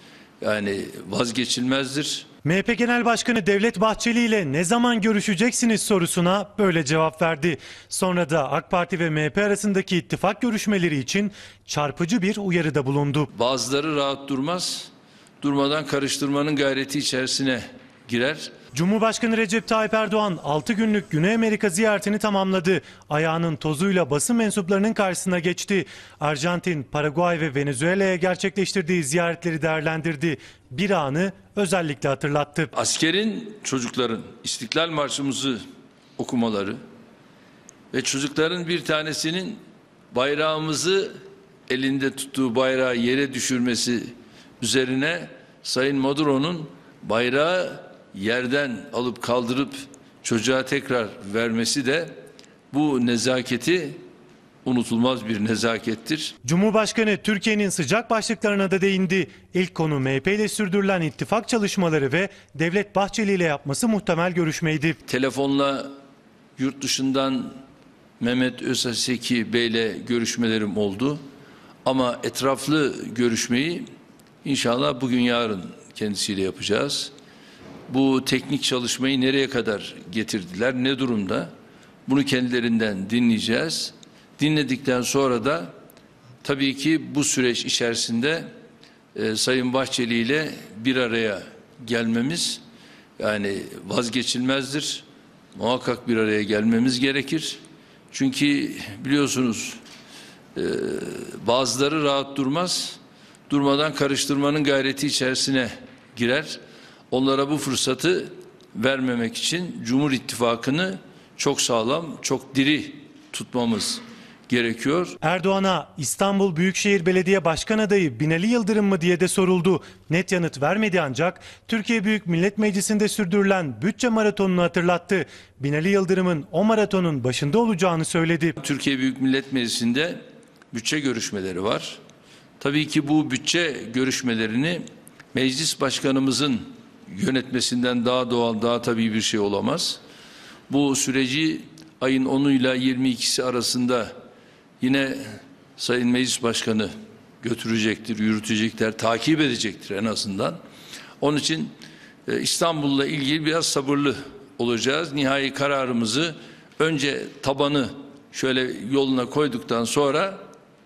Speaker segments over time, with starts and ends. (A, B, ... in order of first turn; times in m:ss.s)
0:00.4-0:02.3 A
0:02.4-0:13.3 B
0:13.3-0:14.9 A
0:15.4-0:18.5 A
0:18.7-0:32.7 B
0:32.7-0:35.6 A
0:36.2-0:36.8 A
0:37.9-0:39.6 A
0:40.1-0:52.1 A
0:52.7-0:54.0 A
0:54.6-0:56.3 A
0:56.4-1:05.0 B
1:05.0-1:05.9 A
1:06.6-1:07.6 A
1:08.2-1:11.2 A
1:11.8-1:13.8 A
1:14.4-1:17.1 A
1:17.9-1:21.5 A
1:22.1-1:25.7 A
1:26.4-1:28.5 A
1:29.1-1:32.6 A
1:33.2-1:37.6 A
1:38.1-1:39.8 A
1:40.5-1:43.0 A
1:43.5-1:46.6 A
1:47.1-1:55.2 A
1:55.2-2:08.6 B
2:08.6-2:10.2 A
2:10.7-2:12.0 A
2:12.6-2:14.8 A
2:15.3-2:20.0 A
2:20.7-2:24.1 A
2:24.8-2:26.9 A
2:27.4-2:30.6 A
2:31.2-2:31.7 A
2:32.3-2:40.4 A